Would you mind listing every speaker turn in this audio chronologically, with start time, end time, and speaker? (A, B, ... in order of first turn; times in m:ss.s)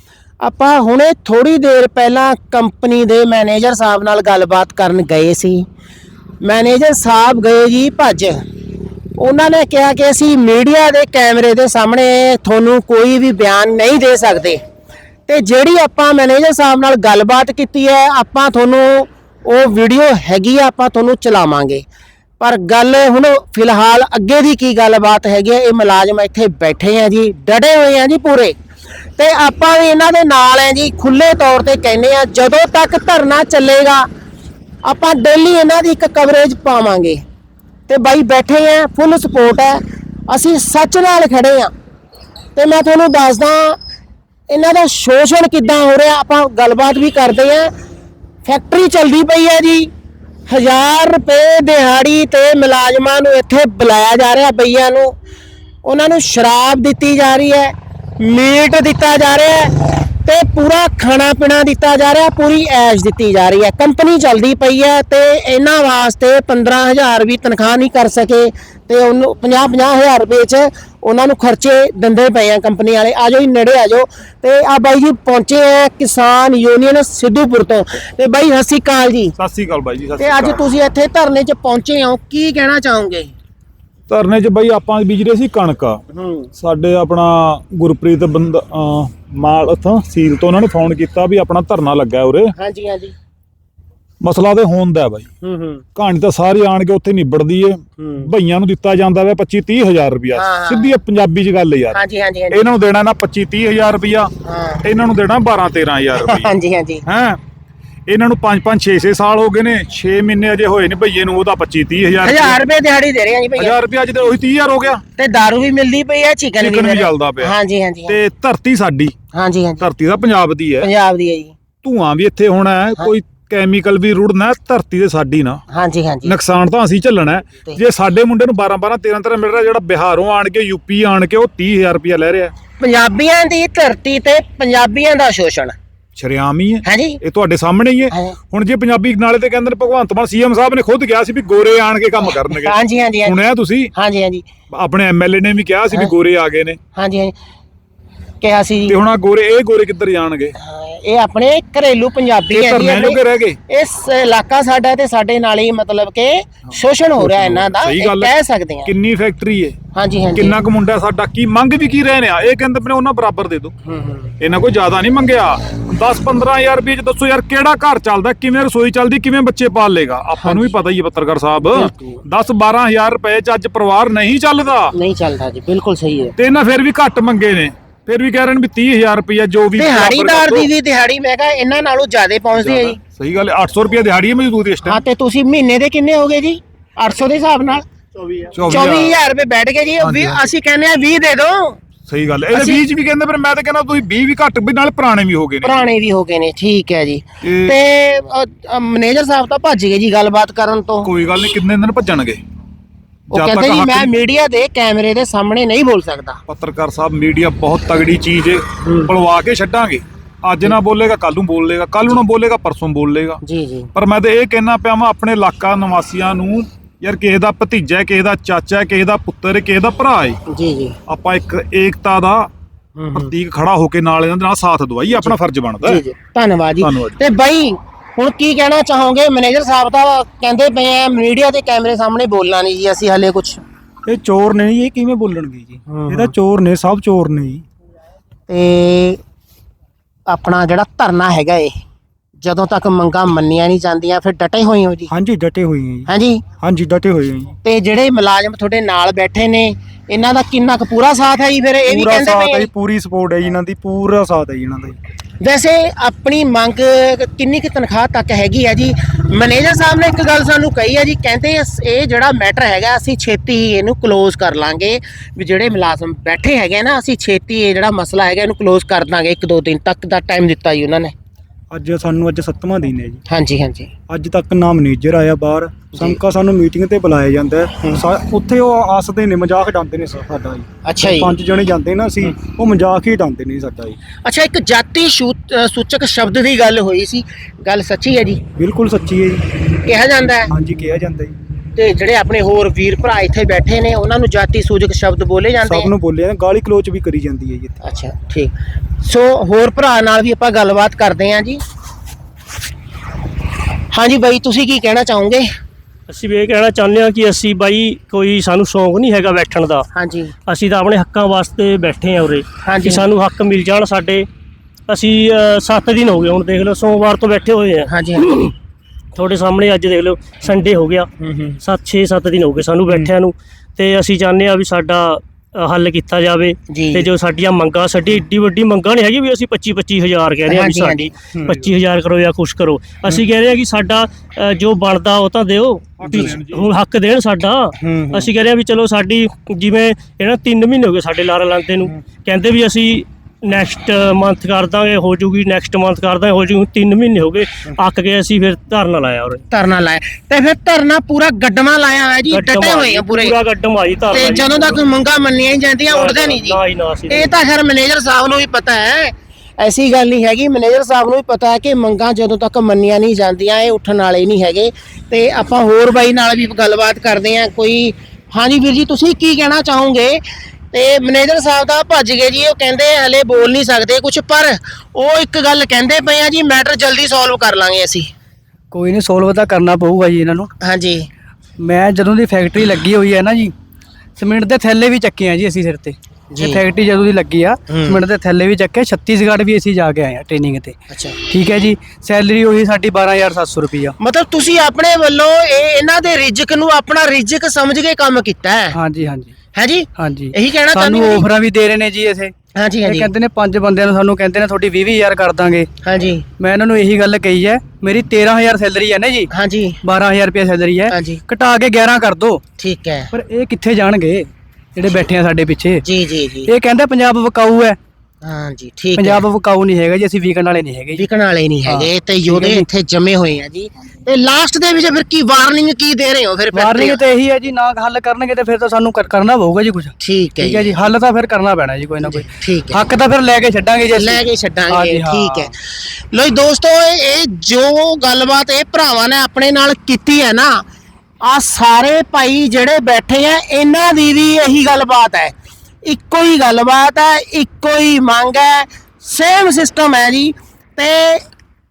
0:00.4-0:05.6 A
0:06.4-0:08.4 A
0:09.2-0:14.6 A
0:15.3-0:21.8 A
0:22.4-0:28.5 A
0:29.2-0:34.1 A
0:34.8-0:37.2 A
0:37.9-0:41.7 A
0:42.6-0:43.8 A
0:44.5-0:47.7 A
0:48.4-0:49.9 A
0:50.5-0:55.2 A
0:55.8-1:19.3 A
1:19.4-1:20.6 B
1:20.2-1:23.3 A
1:24.1-1:26.0 B
1:26.1-1:26.5 A
1:26.6-1:32.5 B
1:32.6-1:33.1 A
1:34.2-1:35.3 B
1:35.4-1:35.8 A
1:35.9-1:42.0 B
1:38.0-1:38.3 A
1:40.3-1:41.0 A
1:41.9-1:42.7 A
1:42.5-1:44.3 B
1:44.4-1:44.8 A
1:44.8-1:46.5 B
1:46.2-1:47.0 A
1:47.0-1:47.4 B
1:48.1-1:52.6 B
1:52.2-1:53.8 A
1:53.6-1:55.0 B
1:55.2-1:58.2 A
1:56.6-1:57.5 B
1:58.1-1:59.1 B
1:59.3-1:59.9 A
1:59.8-2:00.9 B
2:00.8-2:01.5 A
2:01.8-2:05.6 B
2:05.7-2:06.4 A
2:06.2-2:12.5 B
2:12.8-2:15.7 A
2:16.2-2:23.9 B
2:16.8-2:17.2 A
2:18.1-2:18.4 A
2:22.3-2:23.4 A
2:23.9-2:24.4 A
2:24.7-2:26.8 B
2:27.0-2:27.3 A
2:28.4-2:29.0 A
2:28.9-2:30.5 B
2:30.6-2:38.9 A
2:32.5-2:33.6 B
2:37.2-2:38.3 B
2:38.8-2:39.8 B
2:39.9-2:40.6 A
2:40.3-2:43.7 B
2:43.8-2:44.3 A
2:44.4-2:54.9 B
2:50.4-2:50.7 A
2:51.6-2:52.2 A
2:54.9-2:56.3 A
2:56.4-3:00.7 B
2:59.8-3:03.0 A
3:02.6-3:05.0 B
3:04.8-3:07.8 A
3:08.5-3:09.2 B
3:08.7-3:11.8 A
3:10.0-3:10.5 B
3:12.1-3:15.8 B
3:12.5-3:12.8 A
3:15.6-3:21.1 A
3:17.4-3:17.7 B
3:21.0-3:22.4 B
3:23.3-3:26.4 A
3:23.3-3:24.1 B
3:26.5-3:33.4 B
3:28.8-3:29.1 A
3:33.4-3:33.9 A
3:33.9-3:40.4 B
3:40.5-3:41.0 A
3:41.1-3:42.5 B
3:43.0-3:43.3 A
3:43.1-3:46.0 B
3:45.1-3:53.6 A
3:46.8-3:47.2 B
3:54.0-3:57.6 C
3:55.9-3:56.3 A
3:58.5-3:59.2 A
4:00.3-4:01.7 A
4:02.4-4:05.1 A
4:05.1-4:06.1 C
4:06.1-4:06.4 A
4:06.6-4:07.5 C
4:07.6-4:12.7 A
4:11.9-4:15.0 C
4:15.4-4:31.1 A
4:31.7-4:33.2 C
4:33.3-4:33.9 A
4:34.1-4:44.0 C
4:35.9-4:36.2 A
4:40.8-4:41.3 A
4:44.2-4:48.4 A
4:48.5-4:49.6 C
4:49.8-4:50.5 A
4:50.5-4:51.4 C
4:51.8-4:55.9 A
4:55.6-4:57.8 C
4:57.8-5:01.6 A
5:03.9-5:05.4 A
5:06.1-5:09.9 D
5:09.9-5:10.3 A
5:10.5-5:14.3 D
5:12.6-5:13.0 A
5:14.9-5:18.5 D
5:17.9-5:18.3 A
5:19.1-5:21.1 D
5:21.6-5:49.4 D
5:26.7-5:27.1 A
5:30.5-5:31.1 A
5:31.3-5:31.6 C
5:36.0-5:36.7 B
5:37.8-5:38.3 C
5:49.5-5:53.3 A
5:52.3-5:54.8 D
5:54.1-5:56.6 A
5:55.9-5:57.3 D
5:57.1-6:10.2 A
6:10.7-6:18.1 A
6:18.7-6:20.5 E
6:20.6-6:21.0 A
6:21.6-6:23.5 E
6:24.2-6:33.9 E
6:26.3-6:26.6 A
6:27.7-6:28.0 A
6:30.9-6:31.2 A
6:34.0-6:38.8 A
6:38.7-6:39.3 E
6:39.5-6:41.2 A
6:40.0-6:45.7 E
6:42.6-6:43.1 A
6:45.8-6:46.2 A
6:46.4-6:49.3 E
6:49.3-6:49.8 A
6:49.8-6:52.4 E
6:50.9-6:51.2 A
6:52.6-6:53.1 A
6:53.1-6:55.8 E
6:55.8-6:56.5 A
6:56.4-6:57.8 E
6:58.2-6:59.2 A
6:59.0-7:01.1 E
7:01.0-7:07.0 A
7:01.6-7:02.6 E
7:06.5-7:15.5 E
7:10.0-7:10.8 A
7:12.0-7:12.9 A
7:13.9-7:20.6 A
7:21.2-7:25.3 A
7:25.8-7:31.2 A